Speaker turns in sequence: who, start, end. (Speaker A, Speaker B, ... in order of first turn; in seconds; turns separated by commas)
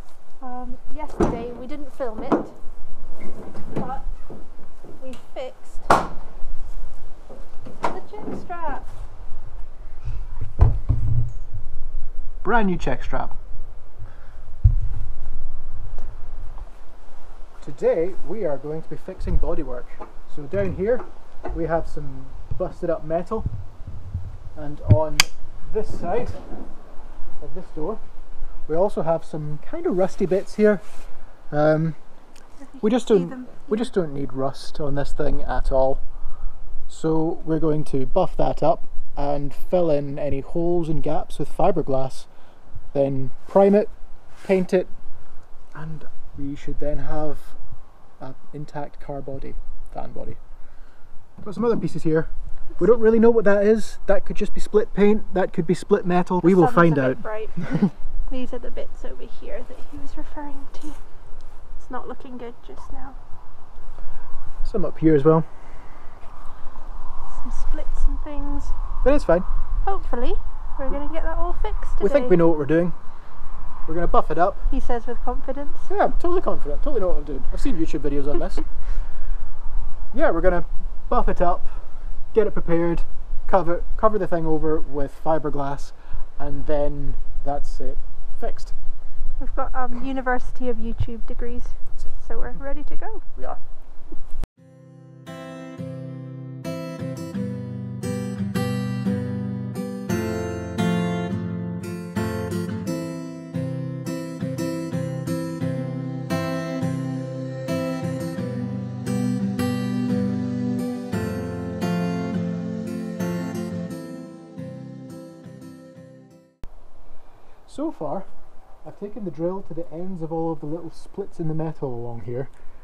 Speaker A: 0.4-2.5, Speaker A: 3.6-4.1, Speaker A: 5.0-5.9, Speaker A: 7.8-8.9, Speaker B: 12.4-13.3, Speaker B: 17.6-23.5, Speaker B: 24.5-26.4, Speaker B: 27.4-28.0, Speaker B: 28.7-30.9, Speaker B: 31.5-32.0, Speaker A: 32.6-33.9, Speaker B: 32.8-36.0, Speaker B: 36.9-42.3, Speaker B: 42.9-44.9, Speaker B: 45.7-47.6, Speaker B: 48.2-50.4, Speaker B: 51.4-57.8, Speaker A: 56.4-61.0, Speaker A: 61.8-63.2, Speaker B: 64.6-65.6, Speaker A: 67.3-68.7, Speaker B: 69.0-69.5, Speaker A: 69.8-72.4, Speaker B: 72.0-73.0, Speaker B: 73.8-74.7, Speaker A: 74.7-75.9, Speaker B: 75.9-78.8, Speaker B: 80.1-88.8, Speaker A: 89.4-93.2, Speaker B: 92.0-92.6, Speaker B: 93.3-93.6, Speaker B: 117.7-118.3, Speaker B: 118.8-122.5